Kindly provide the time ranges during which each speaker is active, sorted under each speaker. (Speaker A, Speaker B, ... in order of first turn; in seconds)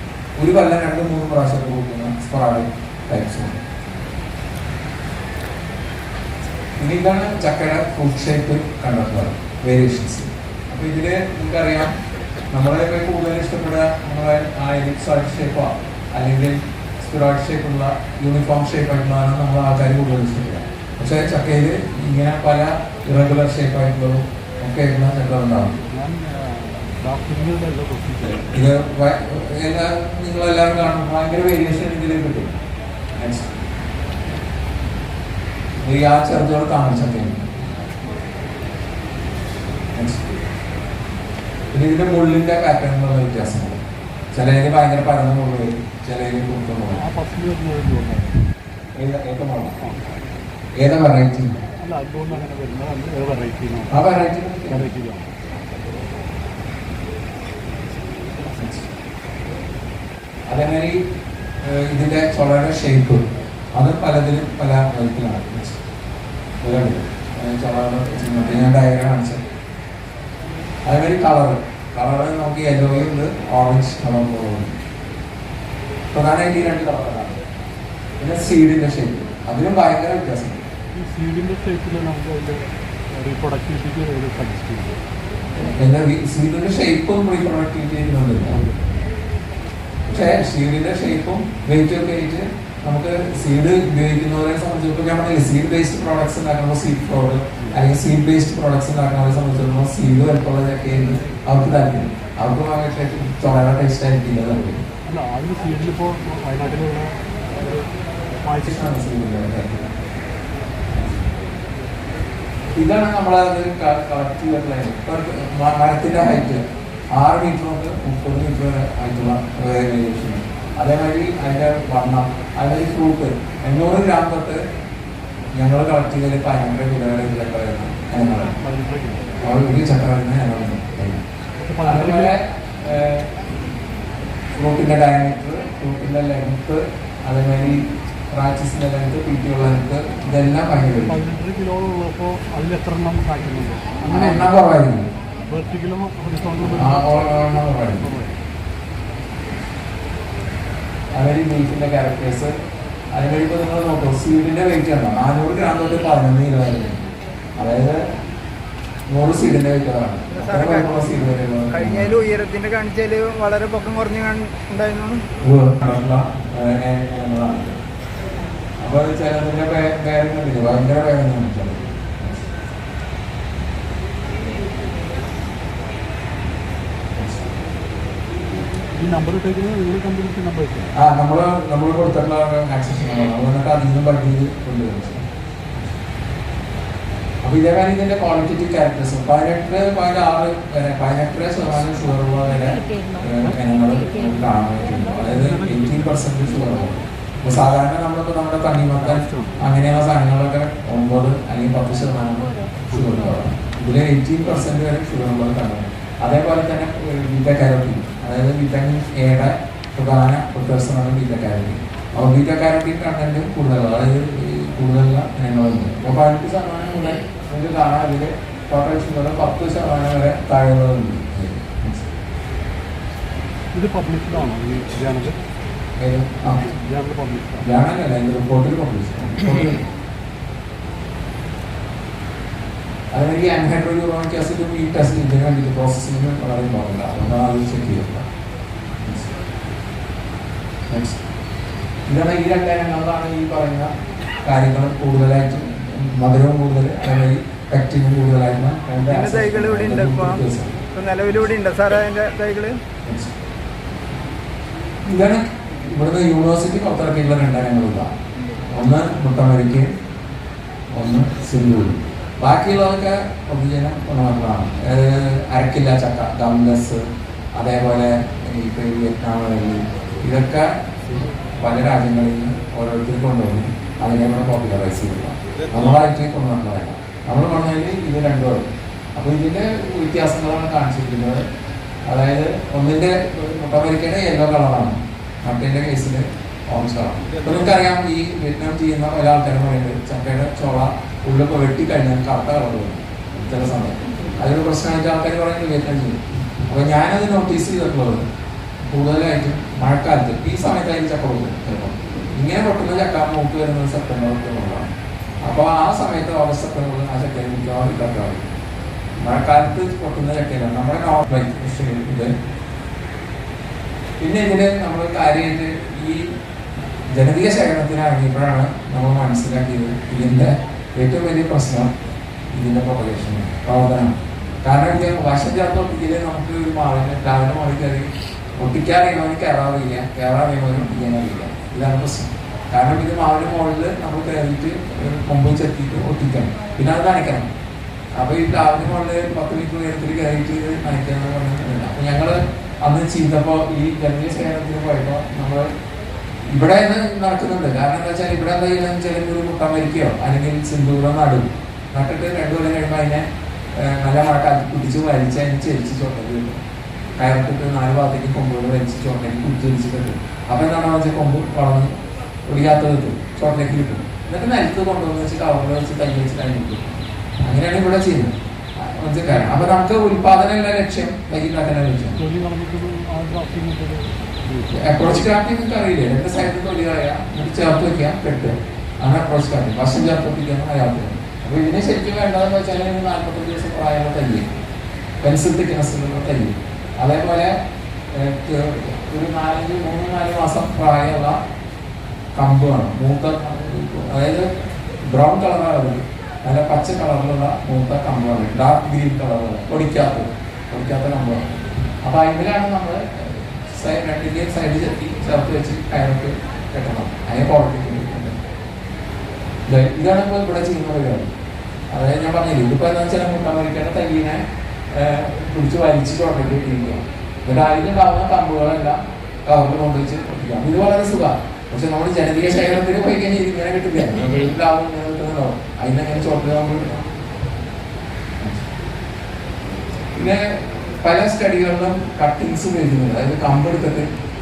Speaker A: 0.4-3.6, 6.8-11.9, 12.5-25.7, 28.3-32.6, 33.1-33.5, 35.8-37.5, 39.9-40.3, 41.7-43.8, 44.3-47.0, 48.9-49.8, 50.8-51.5, 53.9-54.9, 58.4-58.9, 60.5-61.0, 61.6-63.2, 63.7-65.8, 66.6-69.4, 70.8-74.8, 76.1-77.4, 78.2-80.7, 85.5-88.5, 90.1-104.8, 108.6-109.9, 112.7-116.6, 117.1-124.6, 125.5-128.5, 129.4-131.2, 131.8-133.5, 134.5-141.2, 144.0-145.1, 146.6-148.1, 151.1-152.5, 153.1-157.1, 157.6-158.0, 159.1-162.1, 165.4-167.8, 168.8-172.4, 177.2-177.5, 180.9-185.2, 187.4-222.1, 226.0-226.7, 227.6-229.8, 233.1-238.2, 239.0-239.3, 240.9-241.2, 242.1-243.9, 244.4-250.8, 253.0-253.3, 255.0-258.1, 258.6-259.9, 260.9-267.0, 267.6-278.6, 279.1-281.4, 282.1-298.2, 298.8-304.9, 305.4-308.5, 309.2-312.3, 314.2-316.3, 317.1-321.9, 322.5-337.5, 338.1-345.7, 346.5-356.6, 357.2-361.9, 362.5-372.2, 374.7-384.5, 385.2-387.5, 388.1-391.4, 392.3-394.5, 395.0-408.4, 409.6-411.3, 411.9-427.0, 430.1-434.1
Speaker B: 25.7-28.5, 46.9-48.4, 51.7-54.1, 54.7-55.3, 80.9-85.0, 88.5-88.9, 105.0-107.9, 108.4-109.0, 128.6-129.4, 131.6-132.3, 141.1-144.5, 145.4-148.4, 178.9-180.9, 195.2-196.5, 198.9-199.6, 202.9-203.4, 223.7-225.4, 226.6-227.7, 369.3-369.7, 372.1-375.3
Speaker C: 160.3-161.2, 161.7-165.2, 249.1-250.4, 250.9-252.8